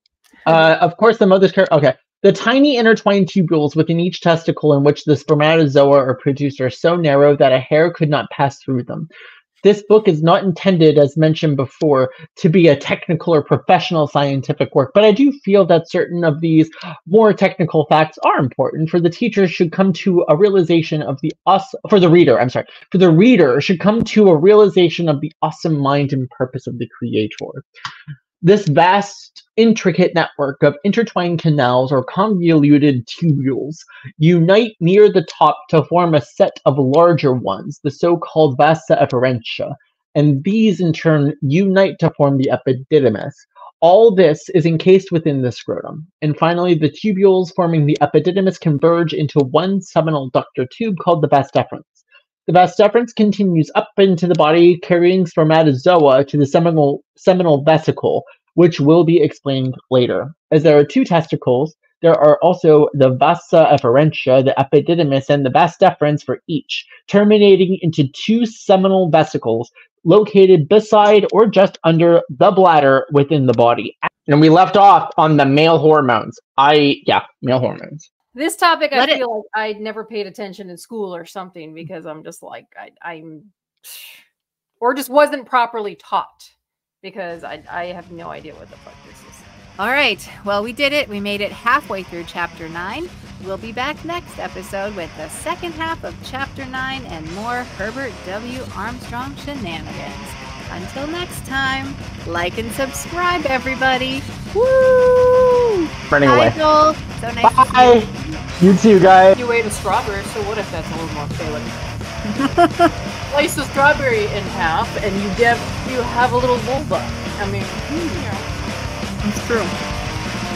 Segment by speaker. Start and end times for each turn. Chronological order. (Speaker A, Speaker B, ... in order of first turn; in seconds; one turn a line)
Speaker A: 0.5-9.1
Speaker A: 9.6-27.6
Speaker A: 28.4-78.1
Speaker B: 78.3-84.2
Speaker C: 78.9-79.2
Speaker B: 84.8-89.4
Speaker C: 89.8-108.7
Speaker A: 106.1-106.6
Speaker A: 107.4-109.4
Speaker B: 109.3-111.8
Speaker C: 112.3-112.9
Speaker B: 113.3-118.5
Speaker C: 119.2-119.7